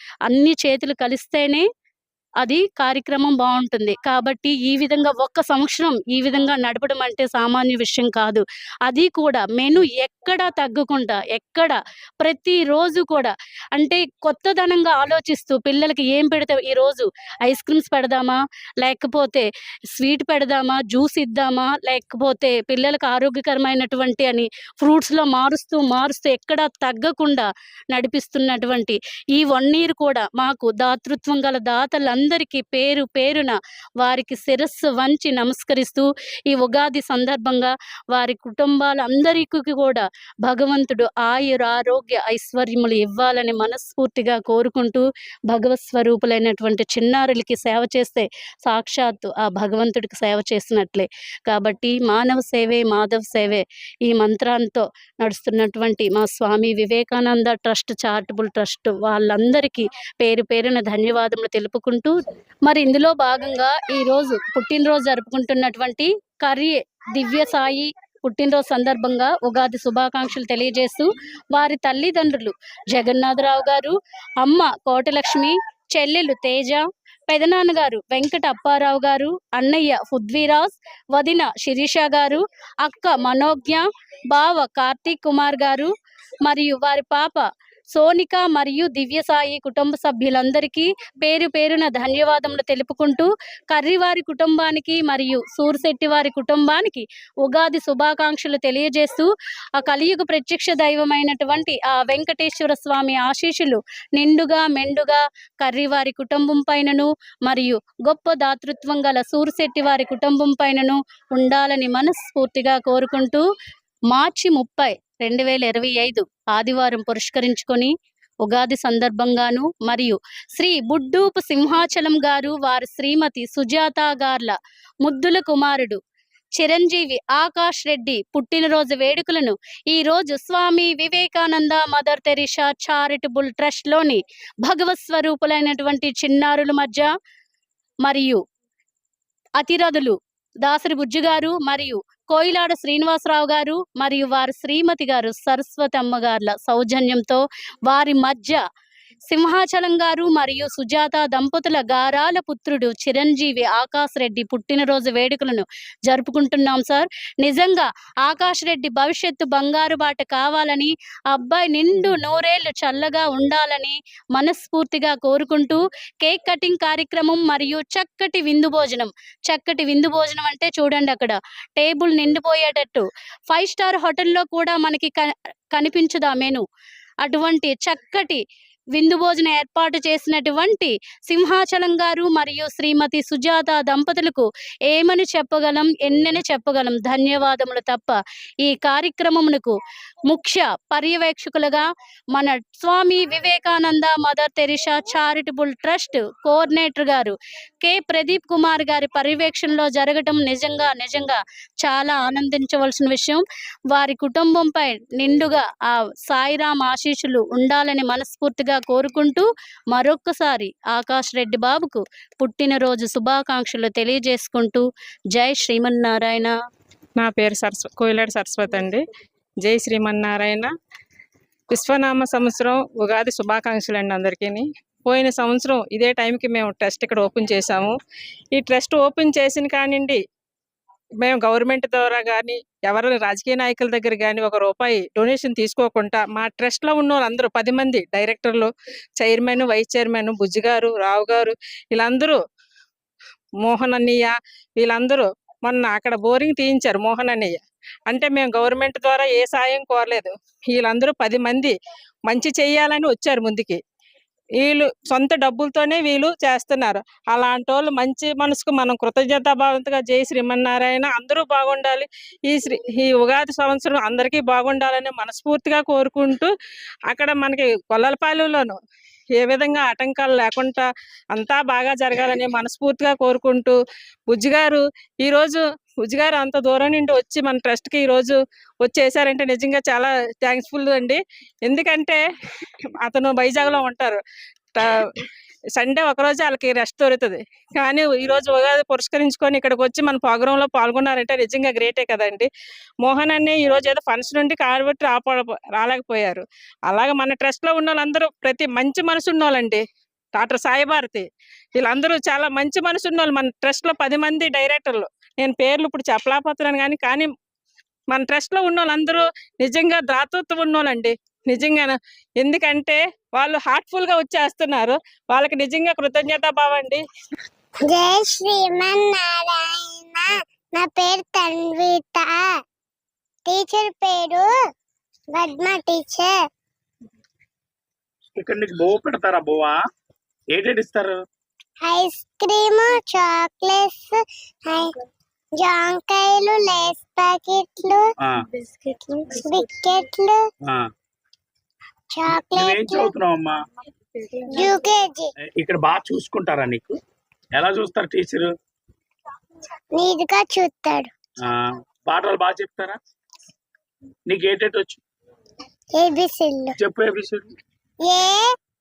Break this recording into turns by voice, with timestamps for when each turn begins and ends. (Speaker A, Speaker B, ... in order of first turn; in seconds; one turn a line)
Speaker A: 0.2-1.6
Speaker A: 2.4-85.9
Speaker A: 86.4-113.4
Speaker A: 114.1-117.9
Speaker A: 118.4-126.0
Speaker A: 126.6-137.1
Speaker A: 138.1-138.4
Speaker A: 139.6-148.6
Speaker A: 149.3-176.6
Speaker A: 177.2-178.4
Speaker A: 178.9-189.8
Speaker A: 190.3-216.5
Speaker B: 217.2-219.0
Speaker B: 219.6-220.7
Speaker B: 221.7-227.9
Speaker B: 228.5-230.2
Speaker B: 231.2-242.4
Speaker B: 243.6-251.7
Speaker B: 252.3-253.8
Speaker B: 254.6-266.5
Speaker B: 267.1-268.7
Speaker B: 269.4-273.8
Speaker B: 274.3-282.2
Speaker B: 283.0-284.2
Speaker B: 285.8-292.5
Speaker B: 293.0-299.8
Speaker B: 300.3-301.2
Speaker B: 301.8-307.3
Speaker B: 308.1-317.0
Speaker C: 317.8-322.4
Speaker C: 323.4-324.5
Speaker C: 325.3-326.4
Speaker D: 328.4-329.8
Speaker D: 330.5-331.2
Speaker C: 331.8-334.9
Speaker C: 335.6-338.1
Speaker C: 338.7-340.4
Speaker C: 342.1-343.1
Speaker D: 342.4-343.6
Speaker C: 344.5-345.3
Speaker D: 345.5-347.0
Speaker D: 347.5-348.5
Speaker C: 349.9-351.1
Speaker D: 351.4-353.0
Speaker D: 354.3-355.0
Speaker C: 355.9-356.7
Speaker D: 356.8-357.5
Speaker C: 358.0-358.5